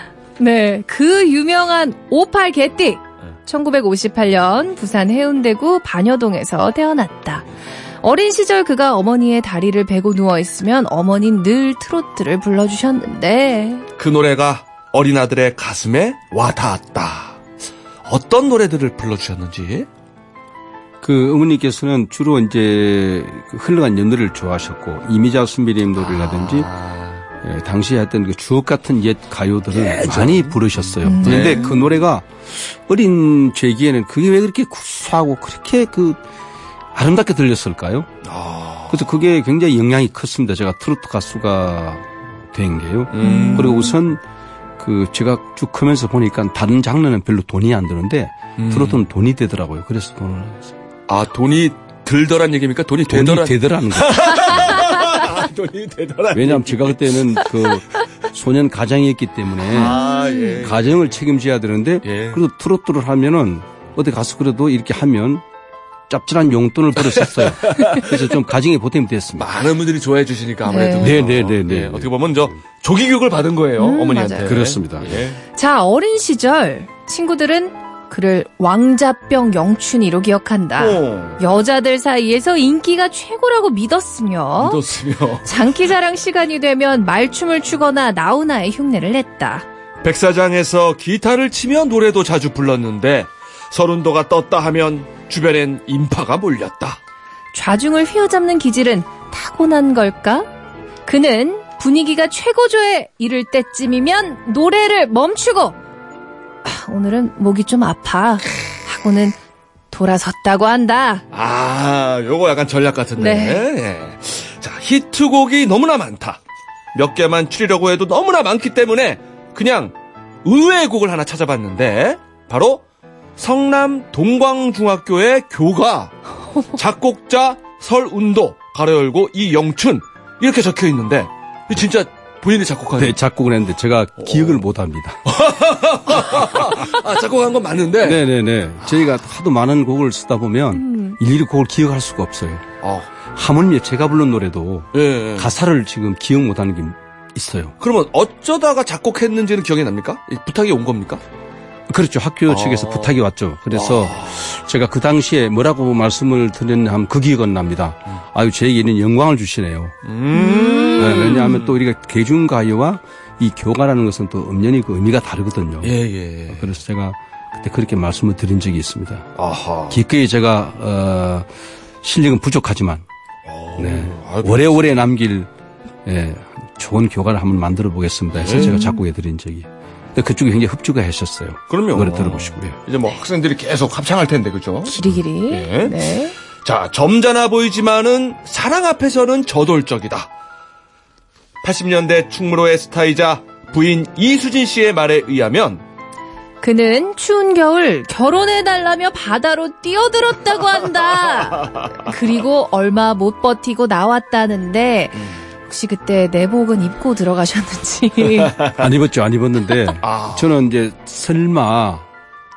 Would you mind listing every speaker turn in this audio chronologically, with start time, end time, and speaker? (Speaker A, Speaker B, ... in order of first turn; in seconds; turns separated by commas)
Speaker A: 0.4-7.4, Speaker A: 8.0-13.8, Speaker B: 14.0-17.4, Speaker B: 18.0-19.9, Speaker C: 21.0-26.7, Speaker B: 26.0-27.2, Speaker C: 27.4-36.2, Speaker B: 29.7-31.9, Speaker A: 31.0-31.8, Speaker C: 36.9-38.1, Speaker B: 38.2-39.1, Speaker C: 38.9-44.2, Speaker B: 43.1-43.8, Speaker A: 43.2-43.9, Speaker C: 44.8-50.7, Speaker B: 48.6-49.0, Speaker B: 51.1-57.5, Speaker C: 53.1-54.9, Speaker C: 56.3-60.0, Speaker B: 59.7-61.0, Speaker A: 59.8-60.6, Speaker C: 60.6-65.4, Speaker B: 62.0-62.4, Speaker C: 66.1-69.5, Speaker B: 67.1-68.3, Speaker B: 69.4-75.4, Speaker A: 70.7-71.2, Speaker C: 71.0-72.5, Speaker A: 73.8-74.5, Speaker C: 74.4-75.2, Speaker A: 75.5-84.8, Speaker B: 80.8-81.4, Speaker B: 84.6-85.5, Speaker A: 85.4-89.6, Speaker B: 90.0-97.0, Speaker A: 97.5-100.5, Speaker A: 101.0-105.8, Speaker A: 106.6-109.4, Speaker A: 109.9-111.2, Speaker B: 111.3-116.4, Speaker A: 113.2-113.6, Speaker B: 116.9-119.9, Speaker B: 120.4-122.8, Speaker B: 123.4-133.2, Speaker C: 133.0-135.2, Speaker B: 134.2-134.6, Speaker B: 135.2-138.2, Speaker C: 136.4-136.8, Speaker C: 138.0-142.7, Speaker A: 140.7-141.2, Speaker B: 142.8-143.1, Speaker C: 143.3-147.7, Speaker B: 144.9-145.5, Speaker B: 147.8-151.2, Speaker C: 151.9-159.9, Speaker B: 152.5-153.2, Speaker B: 153.7-154.4, Speaker B: 160.0-161.8, Speaker A: 160.3-161.3, Speaker C: 160.9-165.9, Speaker B: 165.8-166.7, Speaker C: 166.5-169.3, Speaker B: 169.4-170.0, Speaker C: 169.9-171.5, Speaker C: 172.0-173.0, Speaker B: 173.4-174.8, Speaker C: 173.8-175.5, Speaker C: 176.0-182.8, Speaker B: 178.3-178.8, Speaker A: 178.6-179.0, Speaker B: 181.7-186.0, Speaker A: 184.9-186.3, Speaker B: 186.6-190.3, Speaker B: 191.6-195.8, Speaker A: 196.6-208.5, Speaker B: 201.3-201.9, Speaker B: 205.2-205.4, Speaker B: 208.3-208.9, Speaker C: 208.7-212.0, Speaker B: 210.0-210.5